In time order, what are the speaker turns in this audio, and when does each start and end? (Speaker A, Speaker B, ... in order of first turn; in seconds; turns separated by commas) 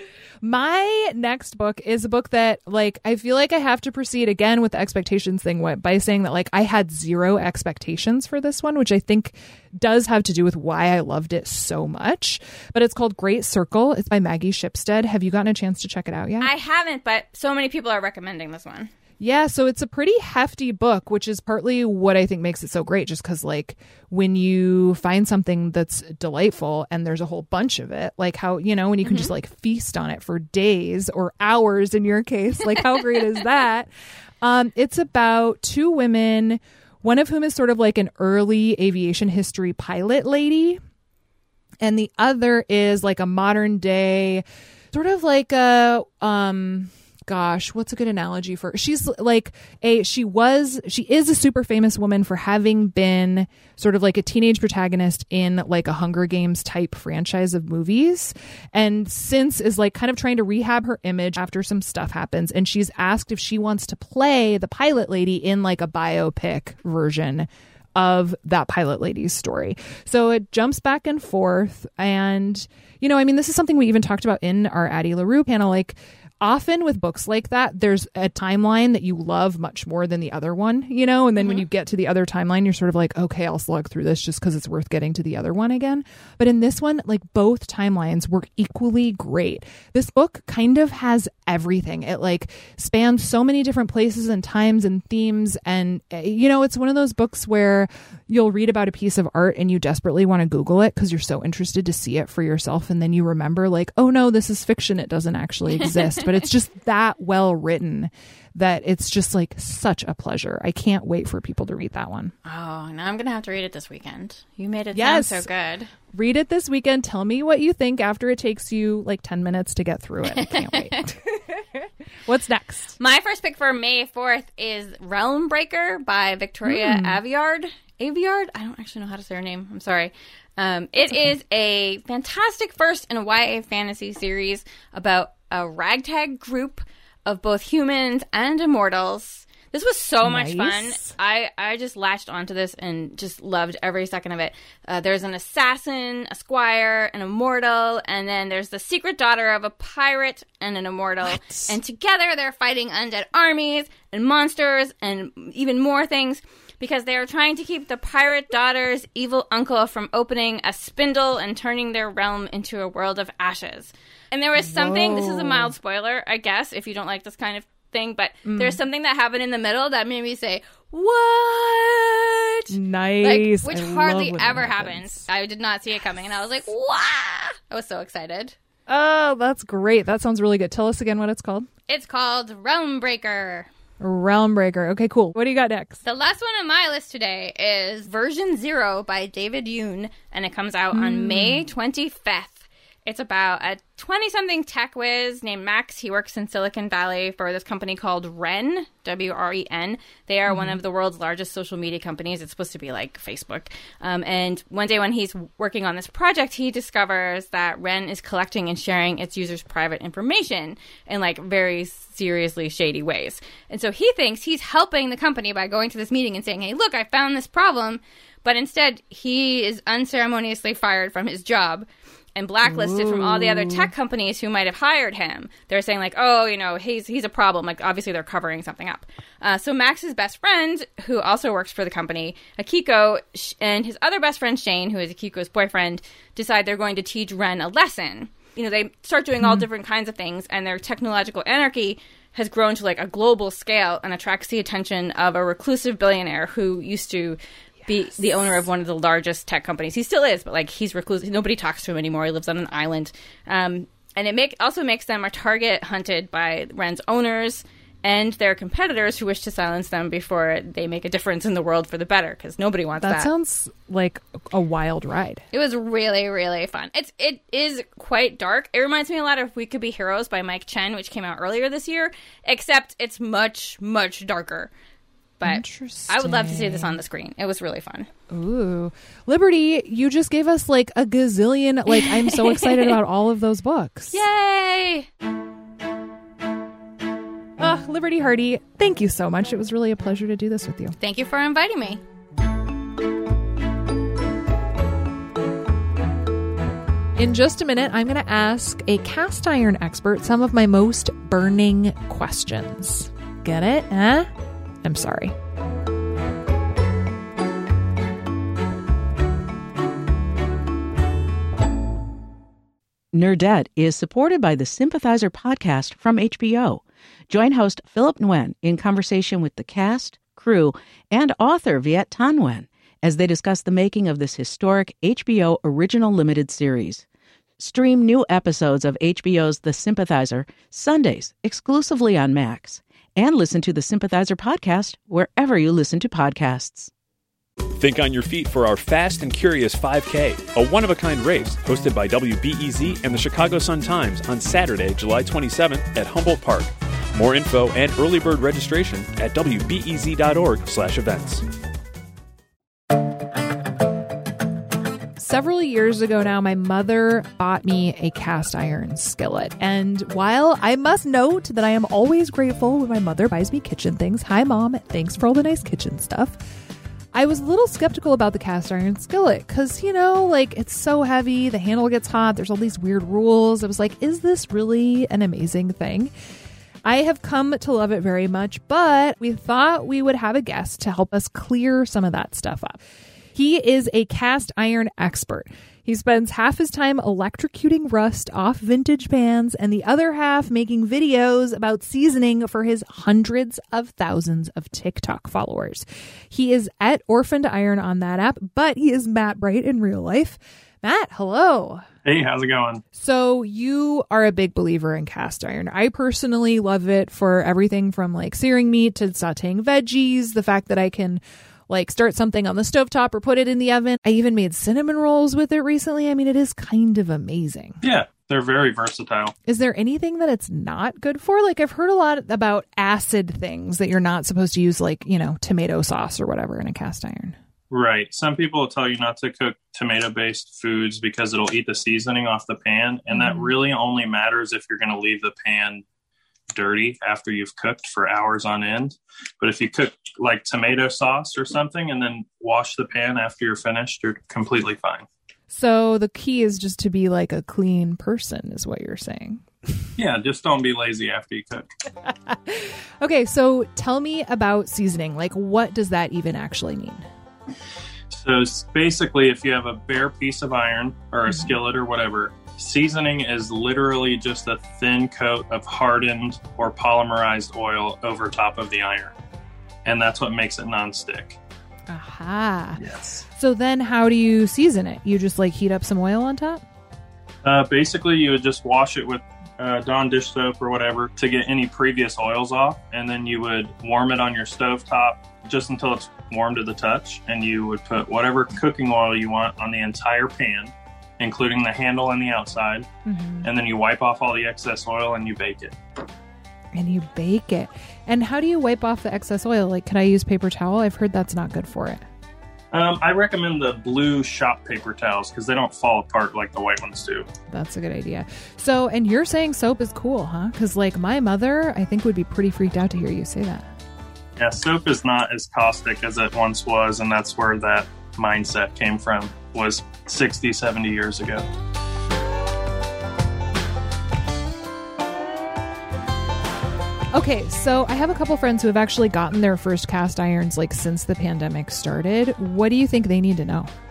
Speaker A: 0.4-16.5, Speaker B: 16.4-18.9, Speaker A: 19.2-33.9, Speaker B: 29.0-29.3, Speaker B: 32.8-33.2, Speaker A: 34.4-40.8, Speaker A: 41.8-112.3, Speaker B: 81.4-81.6, Speaker B: 105.8-106.2, Speaker B: 112.4-115.9, Speaker A: 114.9-115.5, Speaker A: 116.1-121.6, Speaker B: 120.3-121.0, Speaker A: 122.3-123.0, Speaker B: 123.0-178.6, Speaker A: 126.7-127.2, Speaker A: 140.2-141.1, Speaker A: 151.2-151.8, Speaker A: 164.6-165.7, Speaker A: 168.4-168.8, Speaker A: 172.7-175.2, Speaker A: 178.9-181.7, Speaker B: 181.9-183.7, Speaker A: 184.0-186.0, Speaker B: 186.0-263.3, Speaker A: 190.9-191.6, Speaker A: 200.5-200.8, Speaker A: 222.6-223.9, Speaker A: 239.4-239.7, Speaker A: 247.9-248.6, Speaker A: 263.0-265.4, Speaker B: 265.5-274.7, Speaker B: 275.4-278.1, Speaker A: 275.4-277.0, Speaker A: 278.3-284.2, Speaker B: 281.9-282.9, Speaker B: 284.1-285.1, Speaker A: 287.6-290.9, Speaker B: 291.0-292.0, Speaker A: 297.1-304.3, Speaker A: 304.8-305.3, Speaker C: 313.1-327.0, Speaker C: 327.6-336.9, Speaker D: 337.8-351.4, Speaker A: 355.2-366.4, Speaker A: 367.1-376.1, Speaker A: 376.8-382.8, Speaker A: 383.3-401.8, Speaker E: 402.1-402.8, Speaker A: 402.9-417.8, Speaker E: 417.8-419.3, Speaker A: 419.4-427.4, Speaker E: 427.7-435.8, Speaker A: 433.1-433.5, Speaker E: 436.5-445.1, Speaker A: 445.5-449.9, Speaker E: 450.0-451.7, Speaker A: 452.1-457.0, Speaker E: 458.1-469.1, Speaker A: 461.3-461.5, Speaker E: 469.8-471.4, Speaker A: 471.9-472.8, Speaker E: 472.8-473.2, Speaker A: 473.3-476.6, Speaker E: 477.4-492.9, Speaker A: 493.1-493.5, Speaker E: 493.4-495.8, Speaker A: 496.7-502.0, Speaker E: 502.7-507.3, Speaker A: 507.5-513.7, Speaker E: 514.4-521.4, Speaker A: 527.1-533.7